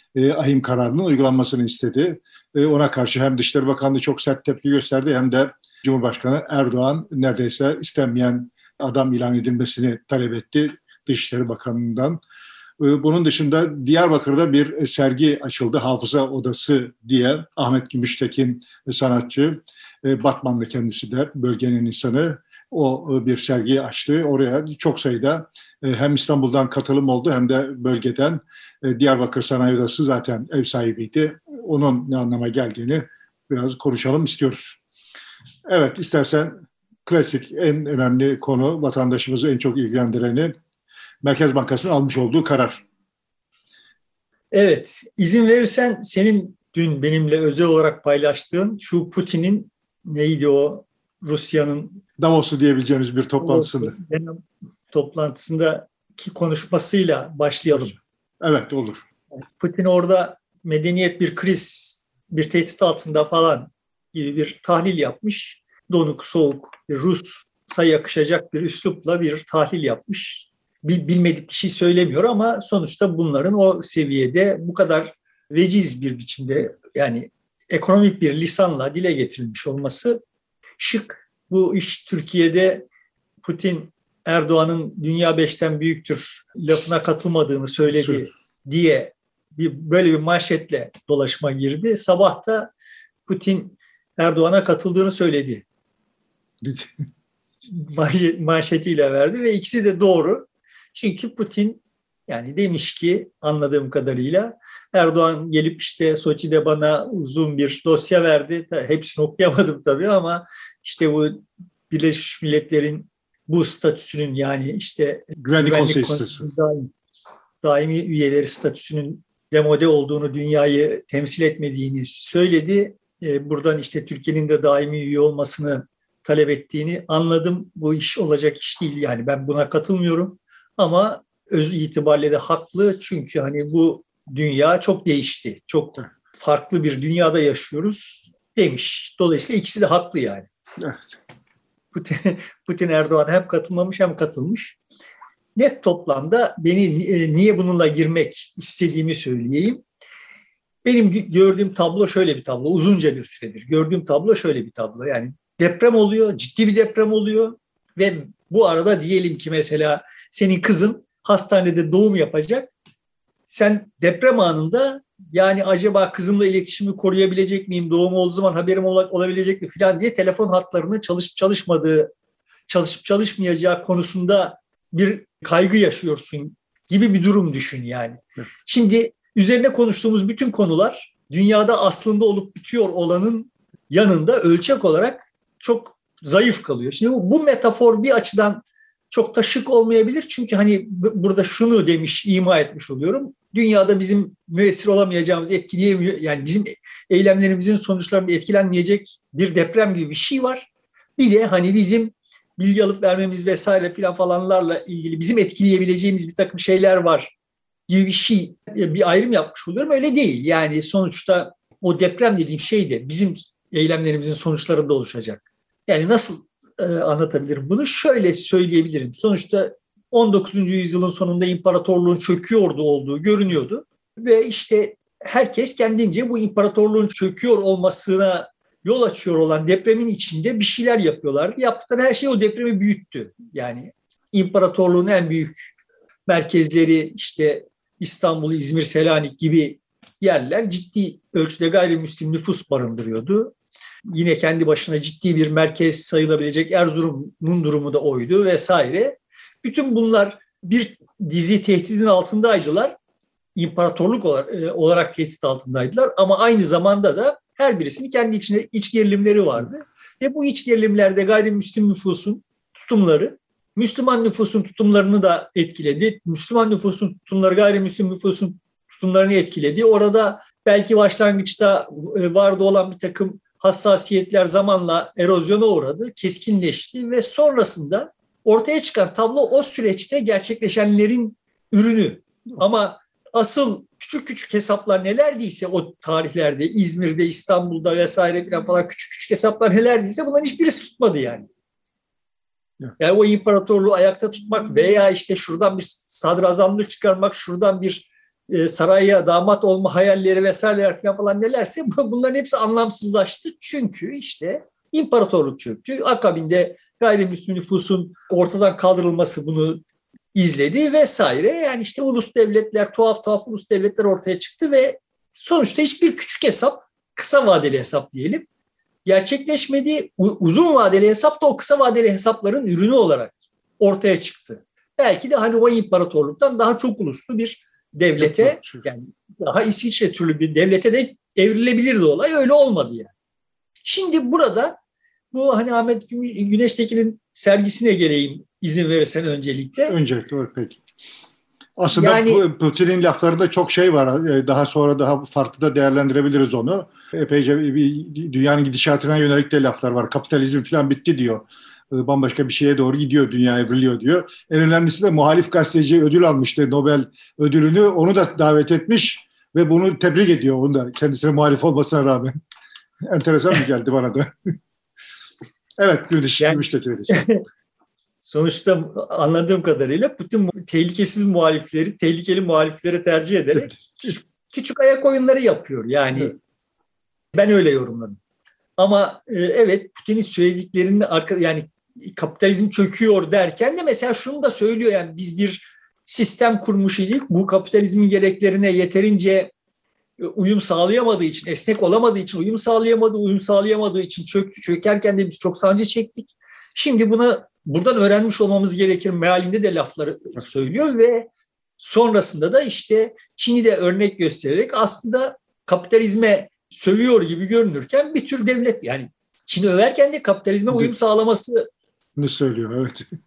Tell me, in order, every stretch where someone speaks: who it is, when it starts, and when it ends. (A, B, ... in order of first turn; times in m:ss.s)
0:00.2-0:12.2 A
0:12.8-0:34.8 A
0:35.7-0:36.6 A
0:37.1-0:40.6 A
0:41.2-0:42.8 A
0:44.5-0:52.0 B
0:52.2-0:54.0 A
0:53.4-0:58.0 B
0:57.7-0:59.0 A
0:59.4-1:20.2 B
1:20.8-1:22.9 B
1:23.4-1:32.7 B
1:28.0-1:28.3 A
1:33.3-1:35.6 B
1:36.6-1:37.0 A
1:37.7-1:56.9 B
1:55.4-1:56.5 A
1:57.6-2:20.5 B
2:20.8-2:21.2 A
2:21.9-2:24.8 B
2:25.6-2:29.8 B
2:30.8-2:42.7 B
2:43.5-2:52.1 B
2:52.7-3:27.3 B
3:27.9-3:55.7 B
3:56.3-4:03.5 B
4:04.1-4:13.0 B
4:13.6-4:51.5 B
4:53.0-5:18.5 B
5:19.1-5:33.1 B
5:28.2-5:28.8 A
5:33.8-5:34.8 B
5:35.3-5:40.0 B
5:39.9-5:40.8 A
5:41.8-6:02.4 A
5:41.9-5:42.4 B
6:03.1-6:04.3 A
6:05.8-6:07.3 A
6:06.4-6:07.4 B
6:08.2-6:16.4 B
6:13.6-6:14.0 A
6:17.3-6:18.2 B
6:18.8-6:29.5 B
6:30.2-6:51.6 B
6:52.2-6:53.0 A